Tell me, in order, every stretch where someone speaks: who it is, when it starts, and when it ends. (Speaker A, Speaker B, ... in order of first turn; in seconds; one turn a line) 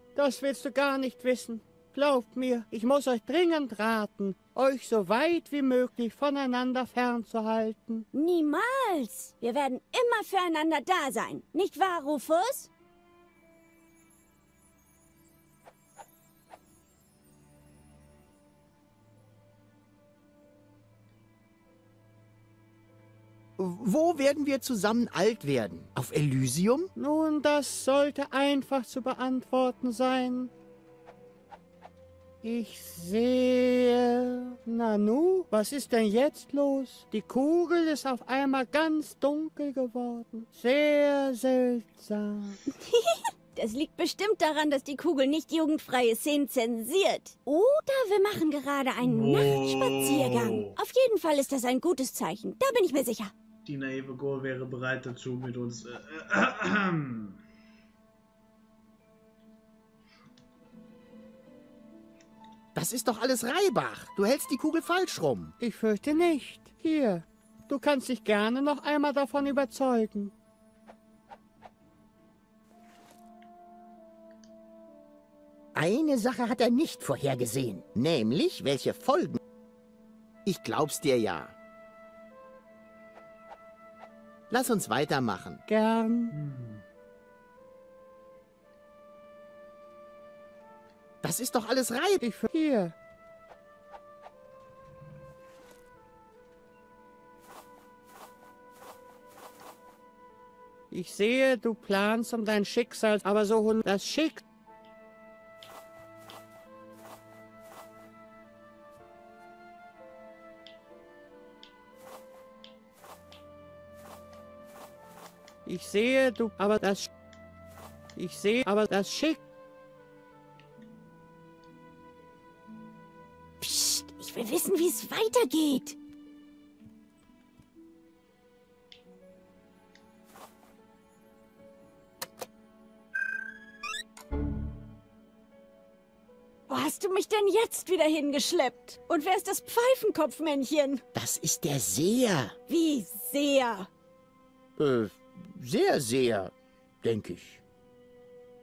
Speaker A: 0.1-8.1
Speaker B: 8.1-12.7
Speaker C: 23.6-26.9
Speaker A: 27.0-30.5
Speaker A: 32.4-42.6
Speaker B: 42.7-53.3
Speaker D: 49.0-50.7
Speaker D: 53.6-57.4
Speaker C: 62.8-65.5
Speaker A: 65.6-70.3
Speaker C: 75.8-79.4
Speaker C: 80.5-81.5
Speaker C: 84.5-85.6
Speaker A: 85.7-86.3
Speaker D: 86.3-86.8
Speaker C: 91.2-92.2
Speaker A: 92.2-93.0
Speaker A: 100.9-104.5
Speaker A: 115.7-117.1
Speaker A: 118.2-119.4
Speaker B: 123.6-126.0
Speaker B: 136.7-141.0
Speaker C: 141.1-142.6
Speaker B: 142.7-143.9
Speaker C: 144.8-147.6